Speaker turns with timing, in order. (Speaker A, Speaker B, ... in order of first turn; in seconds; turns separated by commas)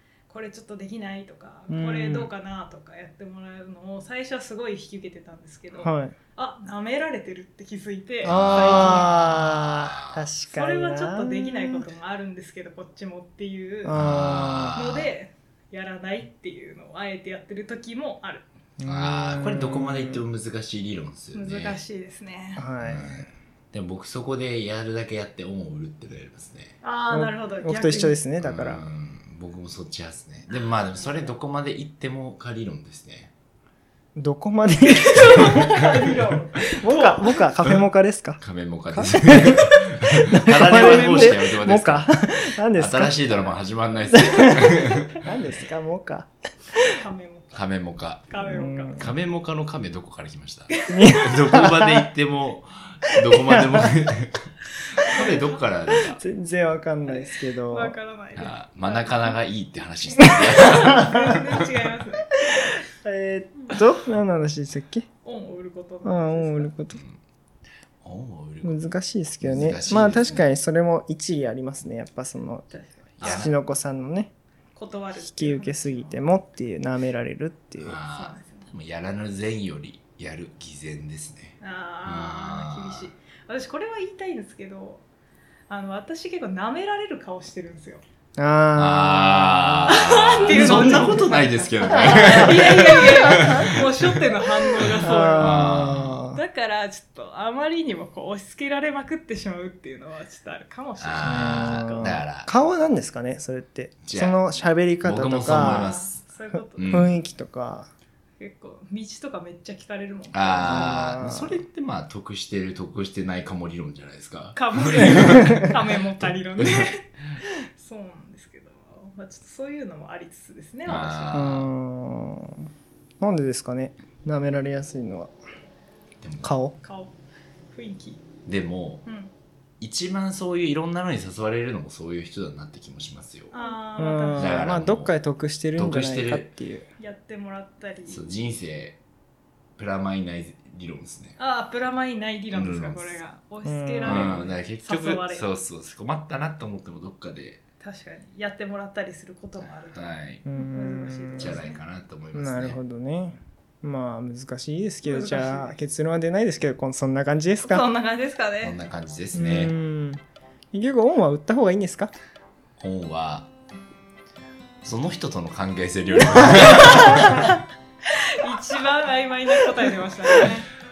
Speaker A: 0.3-9.2, Speaker B: 1.7-2.3, Speaker B: 5.8-6.2, Speaker C: 8.2-10.2, Speaker B: 8.2-11.9, Speaker A: 10.5-14.0, Speaker B: 13.8-14.9, Speaker C: 13.9-15.1, Speaker A: 14.7-18.5, Speaker B: 18.8-20.2, Speaker C: 18.8-21.8, Speaker A: 21.3-22.7, Speaker B: 22.6-23.3, Speaker C: 22.8-26.7, Speaker A: 26.8-28.2, Speaker B: 27.1-28.8, Speaker C: 28.4-33.3, Speaker A: 30.5-31.3, Speaker B: 34.2-35.8, Speaker A: 35.0-37.4, Speaker B: 36.7-43.3, Speaker C: 38.4-45.3, Speaker A: 40.7-41.3, Speaker B: 44.1-46.8, Speaker A: 46.8-47.6, Speaker C: 47.5-48.3, Speaker A: 48.3-49.0, Speaker B: 48.4-49.1, Speaker C: 48.9-56.2, Speaker A: 50.8-51.3, Speaker B: 50.9-52.1, Speaker B: 53.5-53.8, Speaker A: 55.0-55.6, Speaker B: 56.1-57.9, Speaker A: 57.1-59.3, Speaker C: 58.3-61.5, Speaker A: 60.3-62.8, Speaker B: 60.9-61.2, Speaker B: 62.5-65.1, Speaker A: 65.2-66.7, Speaker B: 66.0-67.0, Speaker C: 66.9-67.2, Speaker C: 68.0-68.8, Speaker B: 68.6-74.3, Speaker C: 69.4-70.5, Speaker A: 72.7-73.5, Speaker C: 73.2-73.5, Speaker A: 74.8-76.3, Speaker B: 75.2-78.0, Speaker C: 77.8-83.1, Speaker A: 78.1-78.7, Speaker A: 81.6-85.0, Speaker A: 85.7-88.0, Speaker B: 88.4-91.2, Speaker C: 88.8-94.2, Speaker A: 89.8-102.0, Speaker B: 91.8-93.7, Speaker C: 94.7-96.3, Speaker B: 95.0-96.4, Speaker C: 101.0-102.5, Speaker B: 101.2-105.9, Speaker C: 104.0-104.4, Speaker C: 105.0-106.2, Speaker A: 105.5-107.1, Speaker C: 106.8-107.2, Speaker B: 106.9-107.9, Speaker A: 108.4-110.9, Speaker C: 110.3-115.6, Speaker B: 110.6-111.6, Speaker A: 114.5-121.4, Speaker B: 115.2-115.7, Speaker C: 116.2-116.8, Speaker C: 120.8-121.7, Speaker B: 121.3-122.7, Speaker B: 123.2-125.3, Speaker C: 126.2-126.5, Speaker B: 126.4-126.8, Speaker A: 126.8-127.1, Speaker A: 127.7-128.2, Speaker C: 128.4-129.0, Speaker A: 129.0-129.3, Speaker C: 129.8-133.5, Speaker A: 133.5-134.6, Speaker B: 134.0-136.8, Speaker C: 134.3-135.1, Speaker C: 135.7-136.5, Speaker A: 137.0-138.2, Speaker C: 138.1-139.0, Speaker C: 139.8-141.3, Speaker A: 141.4-145.5, Speaker C: 142.5-143.2, Speaker B: 143.6-144.4, Speaker C: 144.1-147.6, Speaker A: 147.8-151.8, Speaker C: 149.8-150.4, Speaker B: 150.4-151.6, Speaker C: 151.4-152.8, Speaker B: 152.3-157.8, Speaker A: 155.0-155.8, Speaker A: 157.6-158.8, Speaker C: 158.6-159.7, Speaker B: 159.3-160.2, Speaker B: 160.7-162.1, Speaker C: 162.8-163.5, Speaker C: 164.8-167.5, Speaker A: 166.6-170.7